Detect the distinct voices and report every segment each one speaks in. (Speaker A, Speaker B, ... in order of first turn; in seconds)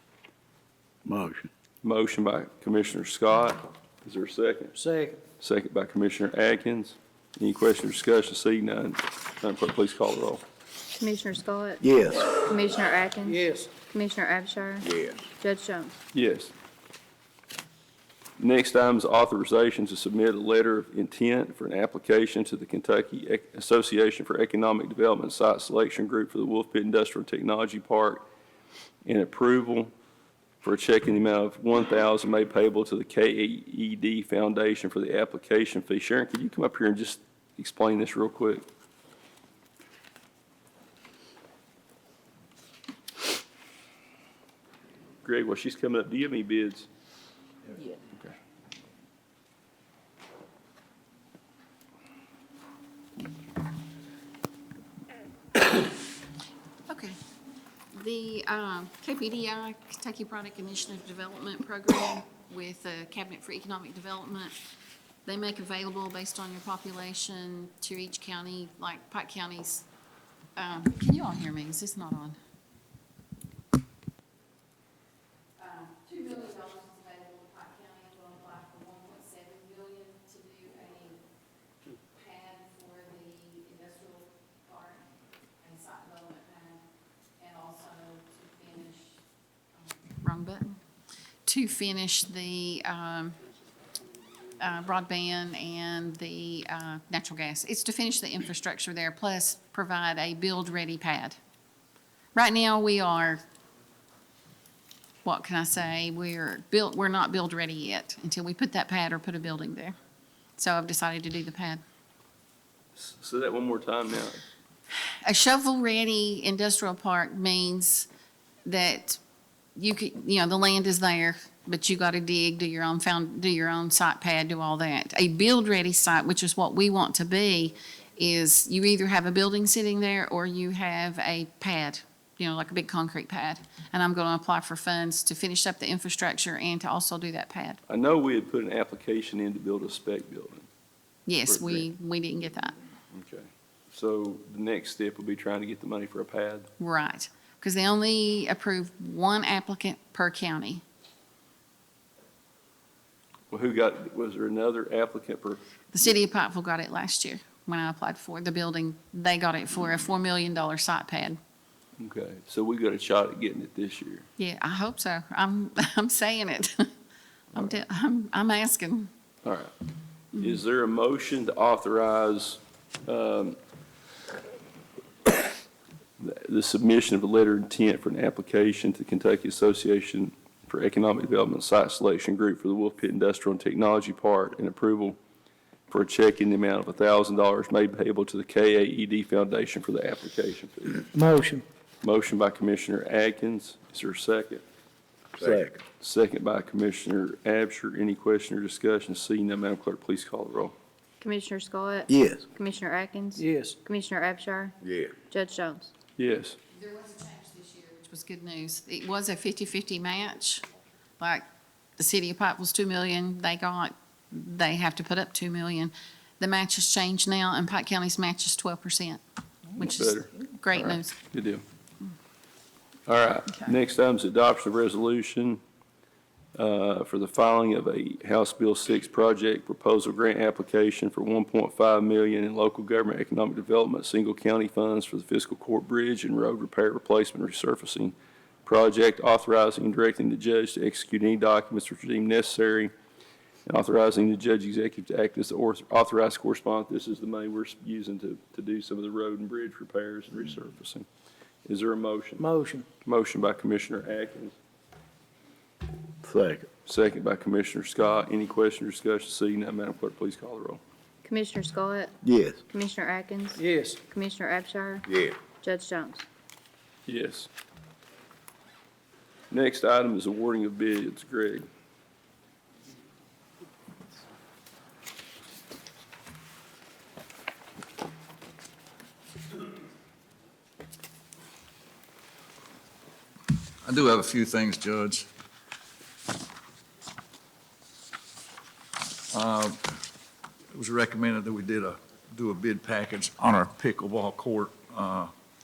Speaker A: 1.1-1.5, 11.8-12.3, 14.8-15.2, 195.4-195.8, 202.1-202.5, 204.8-205.1, 256.2-256.7, 262.2-262.6, 265.1-265.4
Speaker B: 1.8-4.8, 5.4-10.4, 16.1-16.5, 18.4-28.2, 29.1-29.9, 30.6-38.7, 45.2-46.9, 113.0-114.4, 137.9-140.7, 141.5-141.9, 143.1-146.7, 153.5-155.6, 162.0-164.3, 169.4-169.7, 170.3-173.6, 176.2-185.2, 185.9-191.1, 192.0-194.6, 196.0-200.7, 206.2-206.6, 219.8-221.6, 223.1-225.6, 226.6-242.9, 243.7-251.1, 251.7-252.4, 253.0-254.6, 256.9-260.8, 267.1-267.5, 269.5-271.7
Speaker C: 4.8-5.2, 13.2-13.7, 191.1-191.7, 203.4-203.8, 252.4-252.9, 263.6-264.0
Speaker D: 11.0-11.8, 12.3-16.0, 201.2-205.9, 261.2-262.1, 262.7-266.3
Speaker E: 56.9-57.2, 57.9-64.6, 65.2-69.9, 70.6-72.4, 75.6-81.2, 82.2-85.0, 85.6-86.8, 87.4-89.2, 89.8-90.8, 91.5-93.4, 94.6-101.4, 102.3-103.4, 105.2-110.0, 110.6-111.8, 115.2-118.1, 118.7-119.2, 119.8-137.8, 141.3-142.8, 146.8-150.8, 155.9-161.4, 164.4-166.9, 167.5-169.1, 206.7-210.6, 212.0-219.2, 219.7-221.2
Speaker F: 283.8-285.3, 289.3-290.0, 290.7-295.3